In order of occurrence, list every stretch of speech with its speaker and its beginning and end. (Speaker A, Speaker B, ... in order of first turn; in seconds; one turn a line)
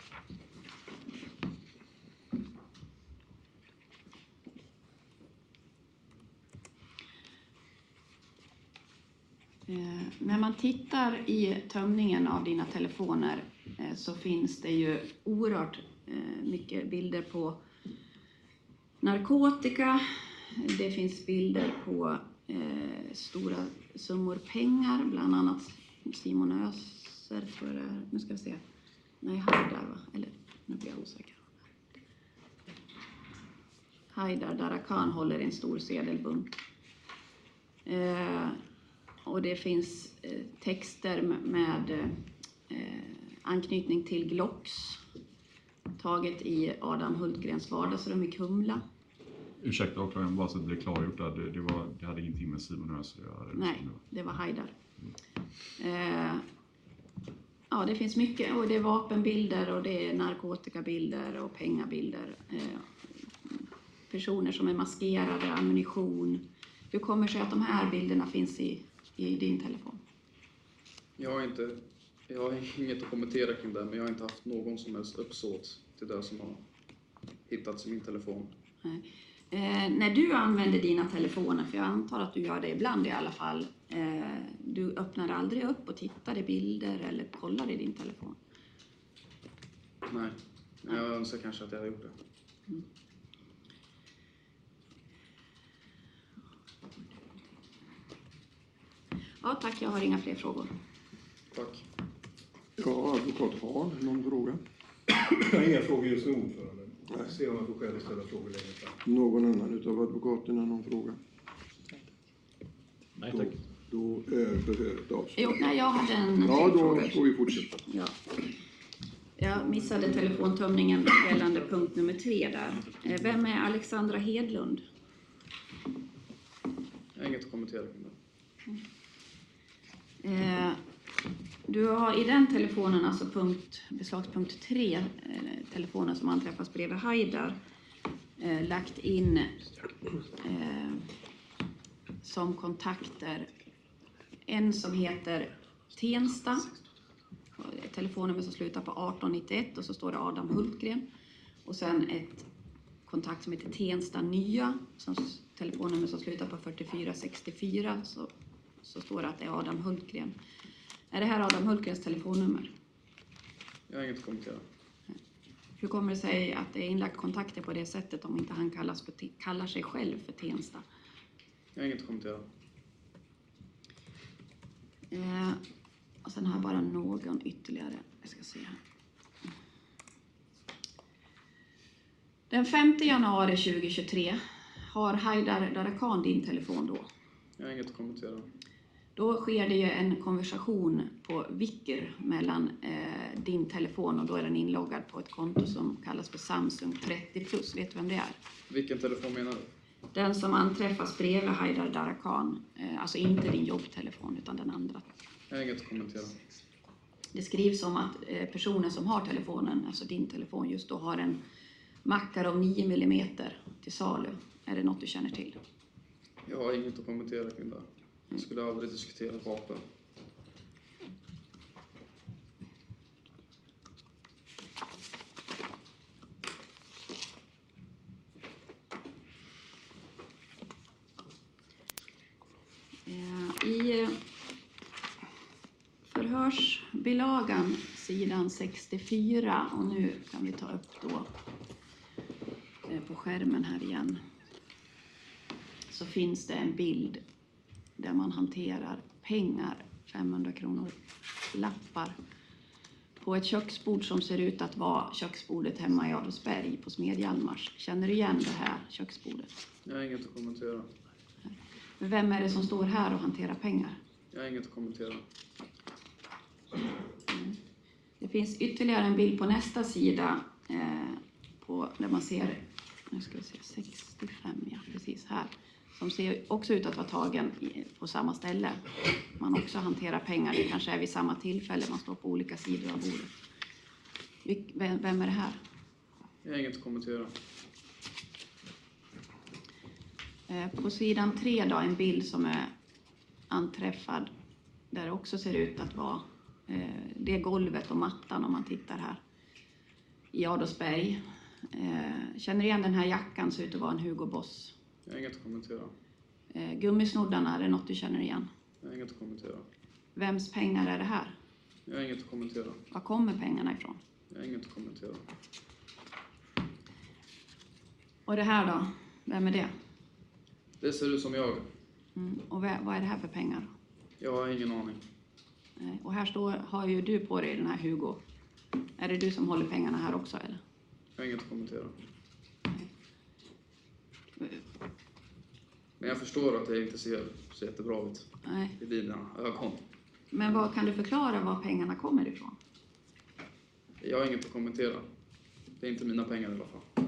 Speaker A: 9.7-17.6
Speaker A: 19.0-28.6
Speaker A: 29.2-31.6
Speaker A: 34.1-36.5
Speaker A: 37.9-38.6
Speaker A: 39.3-45.0
Speaker A: 46.0-48.8
Speaker B: 49.6-54.0
Speaker A: 53.5-54.7
Speaker A: 55.8-56.4
Speaker A: 57.7-62.9
Speaker A: 63.5-70.0
Speaker C: 71.2-76.6
Speaker C: 77.5-78.5
Speaker A: 78.8-88.4
Speaker C: 90.1-92.2
Speaker A: 99.4-100.7
Speaker C: 101.5-101.9
Speaker D: 102.8-104.6
Speaker E: 105.2-109.0
Speaker D: 109.0-111.2
Speaker E: 113.2-113.5
Speaker D: 113.3-115.7
Speaker A: 115.4-117.2
Speaker D: 116.4-117.8
Speaker A: 117.8-118.2
Speaker A: 119.4-124.8
Speaker C: 127.2-128.2
Speaker A: 130.2-130.8
Speaker A: 131.7-137.6
Speaker A: 138.4-139.6
Speaker A: 140.4-141.1
Speaker A: 142.2-143.5
Speaker A: 144.5-146.7
Speaker A: 147.6-151.1
Speaker A: 151.7-152.5
Speaker A: 153.1-160.4
Speaker A: 161.1-162.7
Speaker C: 163.9-164.6
Speaker A: 165.8-170.9
Speaker C: 171.8-172.4
Speaker A: 175.1-175.6
Speaker A: 176.2-178.8
Speaker A: 182.5-187.1
Speaker C: 187.6-188.5
Speaker A: 189.2-198.4
Speaker C: 198.7-199.7
Speaker A: 200.1-205.1
Speaker C: 205.5-206.4
Speaker A: 207.3-211.4
Speaker A: 212.1-215.6
Speaker C: 216.4-219.9
Speaker A: 233.1-234.2
Speaker A: 236.1-241.3
Speaker A: 242.9-244.3
Speaker A: 245.9-247.2
Speaker A: 248.0-252.2
Speaker A: 253.2-259.5
Speaker C: 259.9-260.9
Speaker A: 262.0-264.0
Speaker C: 264.3-265.2
Speaker A: 267.3-267.6
Speaker A: 268.2-278.8
Speaker A: 279.4-283.4
Speaker A: 284.4-285.6
Speaker C: 286.4-287.3
Speaker A: 290.5-292.7
Speaker A: 293.5-294.3
Speaker A: 294.9-299.2
Speaker A: 300.3-304.8
Speaker C: 305.1-305.9
Speaker A: 306.5-308.5
Speaker C: 308.8-309.7
Speaker A: 310.1-311.4
Speaker C: 311.9-312.8
Speaker A: 312.9-314.0
Speaker C: 314.3-315.3
Speaker A: 318.3-319.7
Speaker C: 320.8-321.7
Speaker A: 322.2-323.7
Speaker C: 324.2-325.0
Speaker A: 325.8-328.2
Speaker A: 329.0-330.6
Speaker C: 331.2-332.0
Speaker A: 334.4-334.6
Speaker C: 336.0-339.9
Speaker A: 338.4-338.8
Speaker A: 340.3-342.6
Speaker C: 344.0-345.1
Speaker C: 345.8-346.9